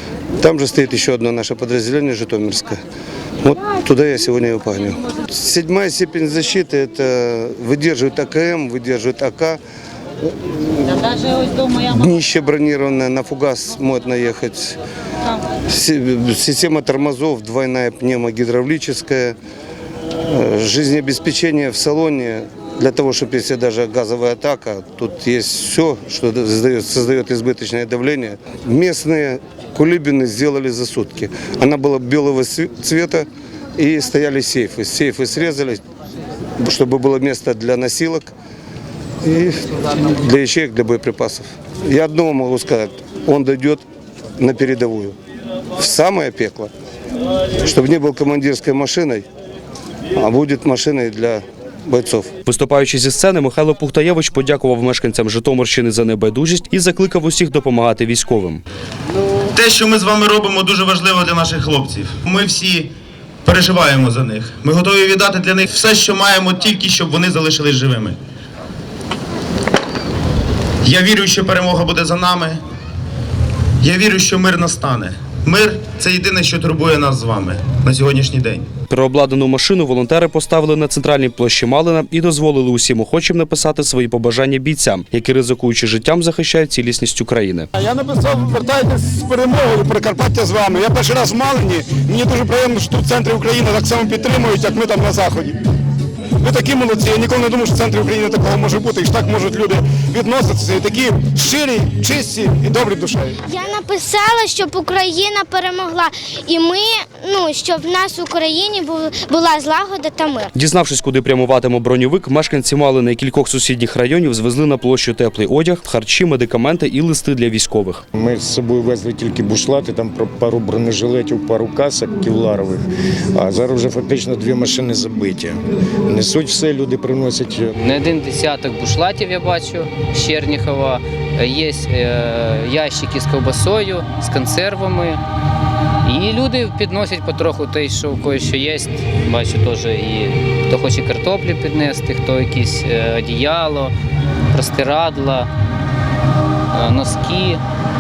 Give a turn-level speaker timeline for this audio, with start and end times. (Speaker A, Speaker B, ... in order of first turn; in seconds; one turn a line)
Speaker A: 0.4-2.8
Speaker A: 3.4-9.6
Speaker A: 10.3-14.8
Speaker A: 15.7-19.4
Speaker A: 20.3-35.8
Speaker A: 36.6-38.3
Speaker A: 39.2-43.8
Speaker A: 44.4-45.2
Speaker A: 45.8-46.7
Speaker A: 47.6-49.2
Speaker A: 50.2-52.3
Speaker B: 52.5-58.6
Speaker C: 59.5-62.9
Speaker C: 63.5-68.2
Speaker C: 70.8-72.6
Speaker C: 73.8-78.7
Speaker B: 78.9-87.7
Speaker D: 87.8-95.6
Speaker D: 96.4-103.4
Speaker E: 103.5-110.5
Speaker B: 110.5-118.0
Speaker F: 118.2-122.8
Speaker F: 123.4-127.7
Speaker G: 127.8-135.2
Speaker G: 136.1-143.9
Speaker G: 144.5-145.5
Speaker G: 146.7-147.6